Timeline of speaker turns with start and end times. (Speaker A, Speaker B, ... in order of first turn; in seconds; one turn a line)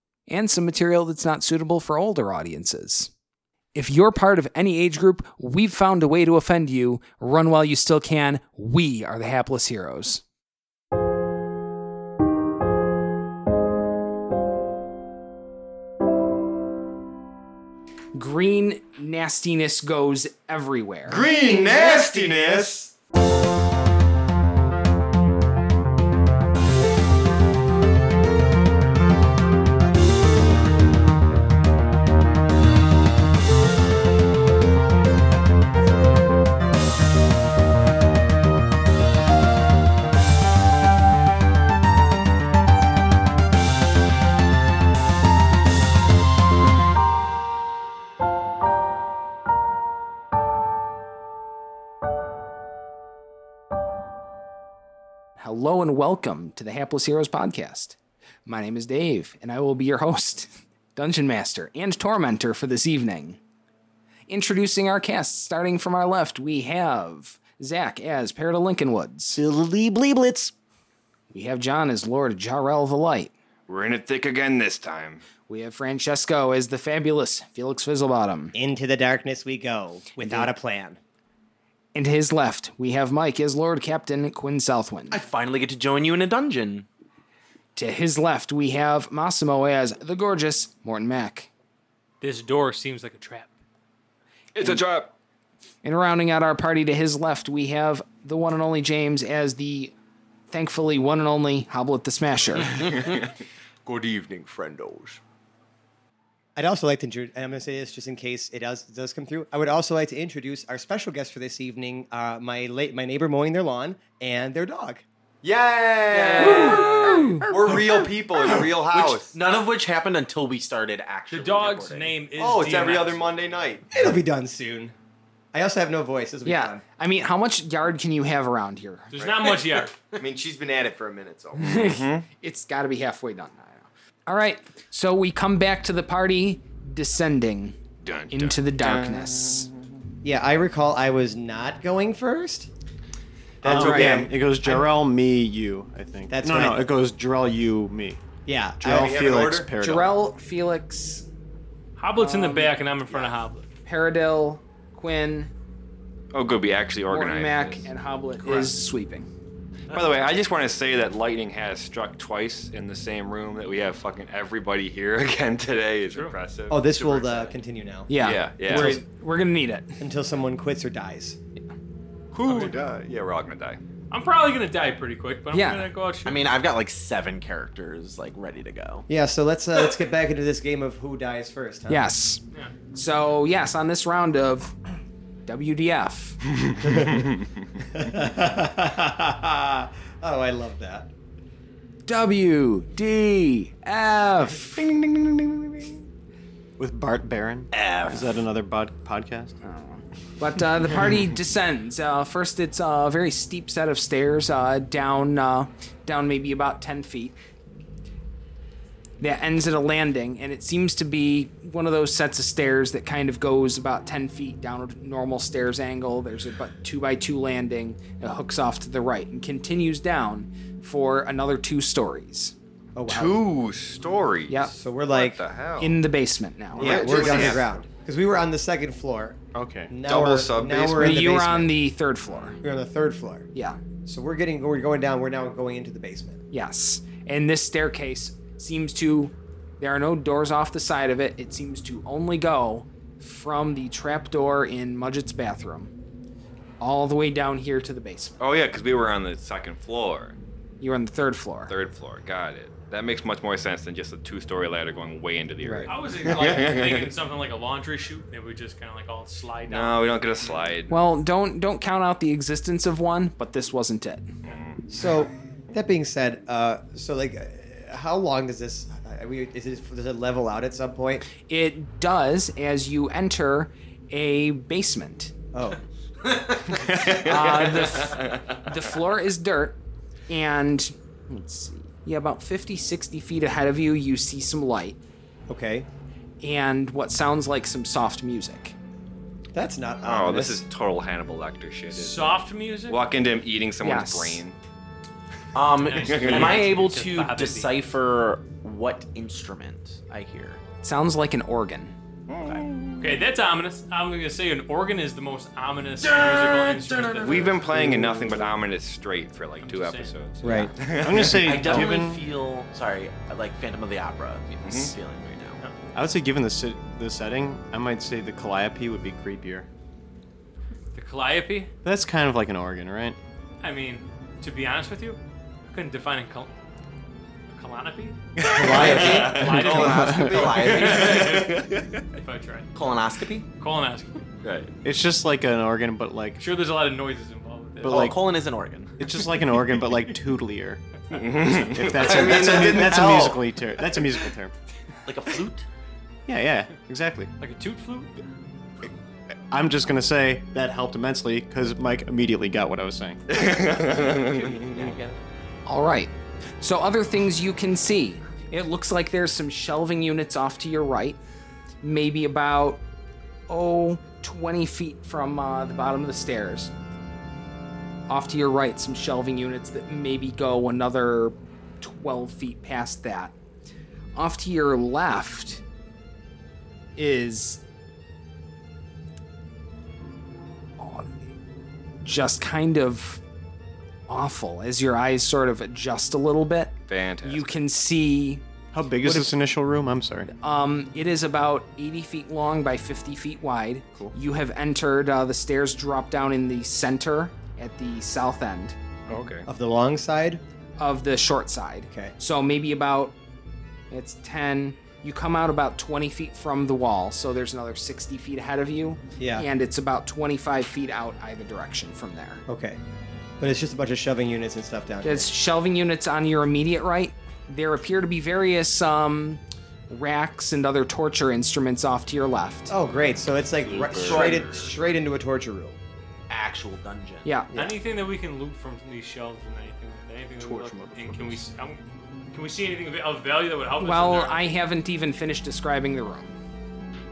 Speaker A: 0.3-3.1
Speaker A: 3.8-10.2
Speaker A: 18.1-21.2
Speaker B: 21.1-22.9
Speaker A: 55.4-63.4
Speaker A: 64.3-69.4
Speaker C: 69.4-70.5
Speaker A: 71.3-73.3
Speaker B: 73.7-75.2
Speaker A: 75.5-78.5
Speaker C: 78.5-81.0
Speaker A: 80.2-80.5
Speaker A: 81.9-85.2
Speaker D: 85.1-86.9
Speaker A: 87.8-91.5
Speaker E: 92.2-93.5
Speaker B: 94.5-95.1
Speaker A: 95.8-99.9
Speaker A: 100.5-102.8
Speaker F: 103.8-105.2
Speaker C: 106.6-115.0
Speaker F: 115.4-119.3
Speaker D: 116.1-122.2
Speaker A: 116.4-117.5
Speaker E: 121.3-123.2
Speaker F: 122.4-123.9
Speaker C: 123.9-125.0
Speaker C: 125.5-126.8
Speaker A: 126.5-129.1
Speaker E: 129.1-129.9
Speaker F: 129.2-129.5
Speaker F: 130.2-131.8
Speaker A: 131.6-137.8
Speaker B: 131.7-132.2
Speaker B: 138.0-139.9
Speaker A: 138.3-139.7
Speaker C: 140.2-142.7
Speaker C: 143.6-144.9
Speaker F: 143.6-144.2
Speaker G: 143.7-148.2
Speaker A: 143.7-144.3
Speaker C: 146.3-146.9
Speaker C: 148.4-149.2
Speaker G: 148.8-150.1
Speaker F: 148.8-149.7
Speaker A: 149.8-151.3
Speaker E: 152.0-153.7
Speaker A: 152.2-152.8
Speaker A: 153.8-155.5
Speaker B: 156.3-157.9
Speaker A: 157.1-159.3
Speaker B: 159.9-167.0
Speaker C: 166.7-169.0
Speaker A: 168.1-170.0
Speaker B: 168.1-169.0
Speaker C: 170.0-171.4
Speaker B: 172.3-173.8
Speaker E: 172.4-172.7
Speaker E: 174.1-176.4
Speaker A: 175.5-175.8
Speaker D: 176.2-179.1
Speaker C: 179.1-182.1
Speaker A: 181.9-182.4
Speaker A: 182.9-184.8
Speaker A: 185.4-186.4
Speaker C: 186.8-191.1
Speaker A: 192.1-194.9
Speaker B: 194.9-195.8
Speaker G: 196.8-199.6
Speaker D: 197.7-198.2
Speaker A: 199.6-207.3
Speaker A: 209.2-222.5
Speaker C: 222.9-223.4
Speaker B: 223.1-226.0
Speaker C: 224.8-225.4
Speaker A: 225.8-227.4
Speaker C: 226.8-231.7
Speaker B: 226.8-227.6
Speaker F: 226.9-227.8
Speaker G: 229.5-230.0
Speaker B: 230.0-231.2
Speaker A: 231.0-232.6
Speaker C: 232.6-233.5
Speaker A: 233.5-233.8
Speaker C: 234.0-236.4
Speaker A: 236.5-245.9
Speaker A: 246.8-248.4
Speaker B: 248.4-250.3
Speaker A: 250.8-251.7
Speaker B: 251.7-257.1
Speaker C: 255.6-255.9
Speaker E: 255.9-260.6
Speaker B: 259.7-261.0
Speaker A: 260.9-264.3
Speaker B: 264.5-264.8
Speaker C: 264.9-271.3
Speaker A: 271.3-275.3
Speaker C: 275.5-275.8
Speaker D: 276.5-276.9
Speaker B: 276.8-278.9
Speaker A: 277.1-279.8
Speaker A: 280.3-285.0
Speaker C: 285.5-285.9
Speaker A: 286.4-288.8
Speaker C: 289.5-290.6
Speaker B: 290.1-292.4
Speaker E: 291.9-293.0
Speaker B: 292.9-294.6
Speaker A: 293.8-294.4
Speaker D: 295.6-300.6
Speaker E: 295.8-297.8
Speaker B: 296.0-296.6
Speaker A: 300.8-301.9
Speaker B: 302.3-303.2
Speaker E: 303.0-307.6
Speaker D: 306.0-307.7
Speaker B: 307.2-311.9
Speaker C: 307.7-308.5
Speaker E: 309.6-310.7
Speaker C: 310.4-310.7
Speaker G: 310.9-312.2
Speaker D: 311.4-315.6
Speaker B: 314.6-315.0
Speaker G: 315.9-319.7
Speaker E: 320.9-321.7
Speaker G: 321.8-323.2
Speaker E: 323.6-326.5
Speaker E: 327.5-331.5
Speaker B: 328.5-330.0
Speaker C: 328.5-329.3
Speaker D: 328.6-331.5
Speaker F: 328.7-331.2
Speaker G: 329.8-330.3
Speaker B: 330.8-332.2
Speaker E: 332.1-332.7
Speaker D: 332.8-333.5
Speaker E: 333.6-334.2
Speaker B: 334.4-334.7
Speaker G: 334.8-336.4
Speaker E: 336.4-338.1
Speaker G: 337.8-338.2
Speaker D: 337.8-339.0
Speaker G: 339.0-340.8
Speaker B: 341.1-343.4
Speaker G: 341.6-344.5
Speaker F: 341.9-343.4
Speaker D: 345.1-345.7
Speaker G: 346.3-347.3
Speaker E: 347.4-348.1
Speaker G: 349.5-353.2
Speaker B: 353.3-354.9
Speaker D: 353.5-355.2
Speaker A: 355.7-361.2
Speaker A: 361.8-362.8
Speaker A: 363.5-366.7
Speaker A: 368.1-373.4
Speaker A: 374.1-375.6
Speaker A: 377.0-377.6
Speaker A: 380.8-381.2
Speaker A: 382.0-383.2
Speaker A: 384.1-388.4
Speaker B: 386.9-387.6
Speaker G: 388.7-390.3
Speaker A: 389.0-389.3
Speaker A: 390.3-398.8
Speaker B: 399.1-399.5
Speaker C: 399.5-400.4
Speaker A: 400.8-403.1
Speaker A: 403.9-412.4
Speaker C: 409.2-409.5
Speaker C: 412.5-412.8
Speaker C: 413.4-415.3
Speaker A: 415.0-422.7
Speaker C: 422.7-425.8
Speaker B: 423.6-424.6
Speaker D: 423.7-424.7
Speaker D: 426.3-427.3
Speaker A: 427.2-427.5
Speaker C: 427.5-427.8
Speaker E: 427.5-431.8
Speaker G: 430.4-431.5
Speaker E: 432.3-434.5
Speaker A: 433.8-436.4